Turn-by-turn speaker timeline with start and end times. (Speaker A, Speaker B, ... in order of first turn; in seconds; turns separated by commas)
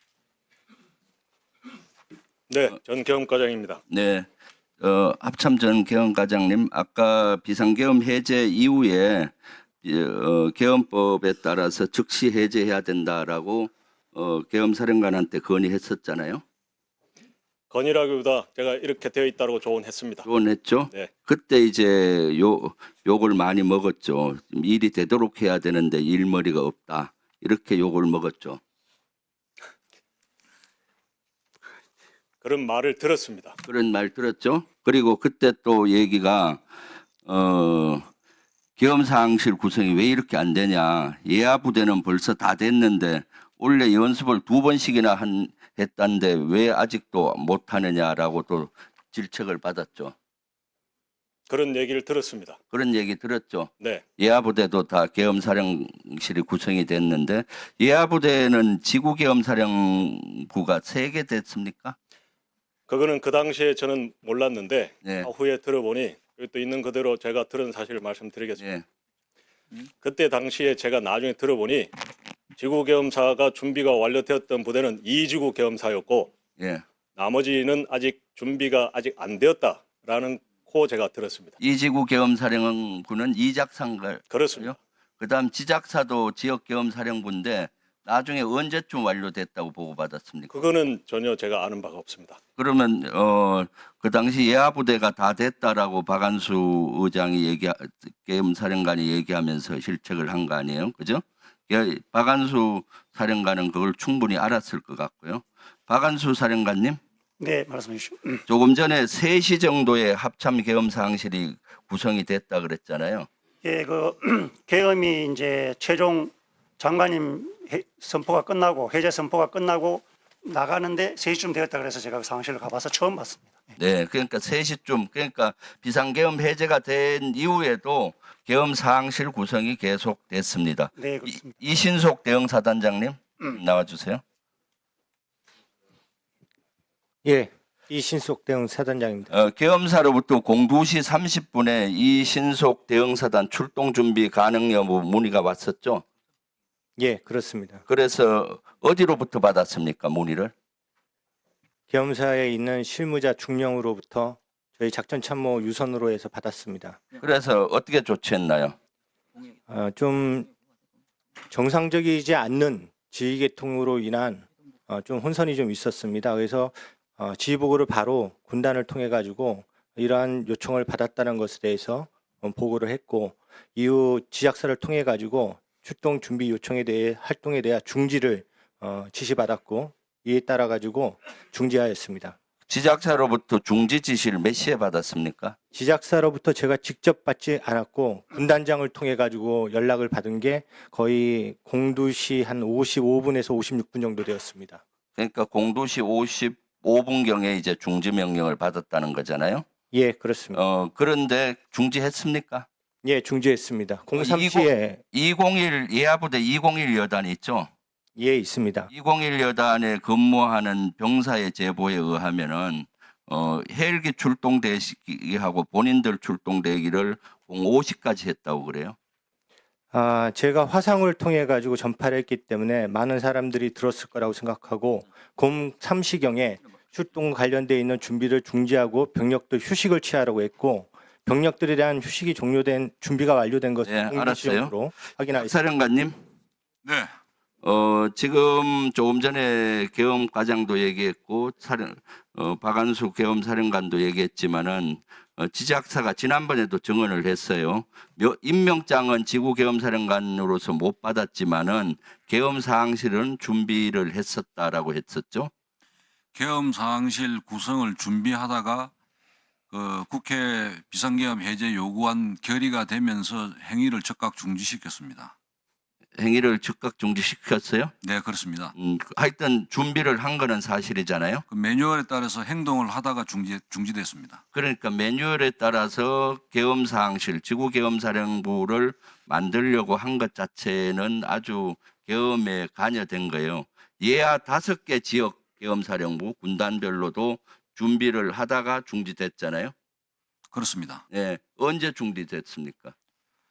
Speaker A: 2.5-3.8, Speaker B: 3.9-4.3, Speaker B: 4.8-16.4, Speaker A: 17.7-20.3, Speaker B: 20.2-28.6, Speaker A: 32.4-33.5, Speaker B: 33.6-36.6, Speaker B: 37.2-38.1, Speaker B: 38.8-50.1, Speaker A: 51.5-52.6, Speaker B: 52.7-62.0, Speaker A: 62.9-68.6, Speaker B: 65.0-65.3, Speaker B: 68.6-68.8, Speaker A: 70.0-71.9, Speaker A: 72.6-76.3, Speaker B: 76.6-76.8, Speaker A: 77.1-81.6, Speaker B: 81.6-90.5, Speaker A: 84.3-84.7, Speaker A: 90.5-92.4, Speaker B: 92.6-107.0, Speaker C: 107.4-108.4, Speaker B: 108.5-113.3, Speaker C: 113.6-123.7, Speaker B: 123.8-134.2, Speaker C: 130.9-131.5, Speaker D: 137.2-139.3, Speaker B: 139.3-146.0, Speaker D: 147.0-147.8, Speaker B: 147.9-150.5, Speaker D: 151.9-157.1, Speaker B: 157.2-158.7, Speaker D: 159.7-160.5, Speaker D: 161.5-182.4, Speaker B: 182.7-185.6, Speaker D: 185.7-194.8, Speaker B: 195.2-199.6, Speaker D: 199.9-200.6, Speaker B: 200.5-202.7, Speaker D: 203.0-205.0, Speaker B: 204.2-207.7, Speaker D: 208.2-208.9, Speaker B: 208.9-219.0, Speaker D: 219.9-235.6, Speaker B: 233.8-234.8, Speaker B: 235.3-236.2, Speaker E: 236.8-237.1, Speaker B: 237.6-255.5, Speaker E: 256.3-258.9, Speaker E: 259.7-265.3, Speaker B: 266.2-267.9, Speaker E: 268.0-268.7, Speaker B: 268.8-271.4, Speaker E: 271.5-274.4, Speaker B: 274.5-289.7, Speaker E: 290.5-291.0, Speaker B: 291.1-292.9